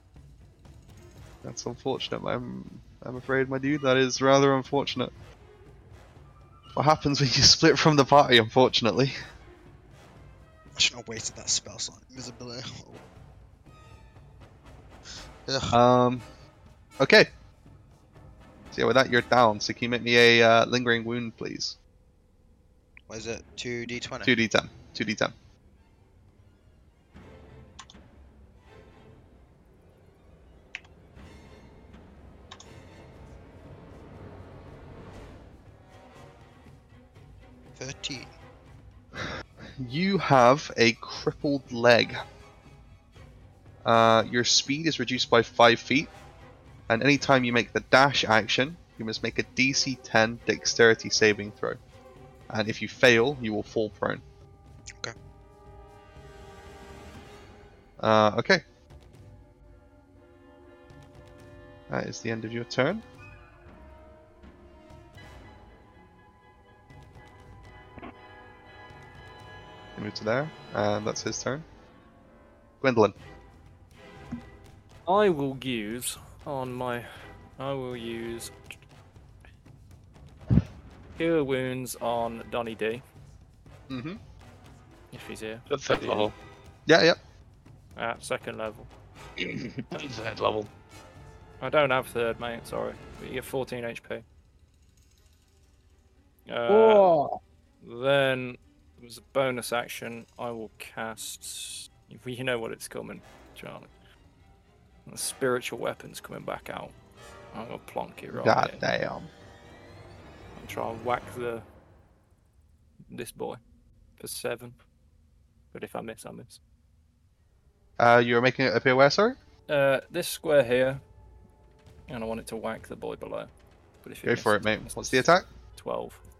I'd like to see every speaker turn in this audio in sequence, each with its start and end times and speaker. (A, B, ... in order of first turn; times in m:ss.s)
0:01.4-0:05.1 A
0:06.7-0:09.2 A
0:10.8-0:13.0 B
0:15.5-0:15.8 B
0:15.7-0:16.2 A
0:17.0-0:17.3 A
0:18.7-0:21.8 A
0:23.1-0:24.3 B
0:24.2-0:25.3 A
0:37.8-0:38.3 B
0:39.8-0:42.2 A
0:43.8-0:46.1 A
0:46.9-0:51.8 A
0:52.5-0:54.2 A
0:58.0-0:58.6 A
1:01.9-1:03.0 A
1:10.0-1:11.6 A
1:12.8-1:13.2 A
1:15.1-1:18.5 C
1:21.2-1:23.0 C
1:23.9-1:24.2 A
1:25.1-1:26.3 C
1:25.7-1:26.3 D
1:26.9-1:27.2 A
1:28.0-1:28.9 C
1:29.4-1:30.7 D
1:31.6-1:34.2 C
1:36.5-1:37.1 C
1:36.7-1:37.4 D
1:37.8-1:43.9 C
1:45.1-1:47.0 C
1:47.5-1:48.8 C
1:48.3-1:49.3 A
1:50.6-1:51.6 C
1:53.1-1:53.6 C
1:54.2-1:54.8 C
1:55.7-1:56.6 C
1:58.0-1:59.4 A
1:59.7-2:01.0 C
2:02.1-2:03.5 C
2:04.0-2:06.2 C
2:04.3-2:05.5 A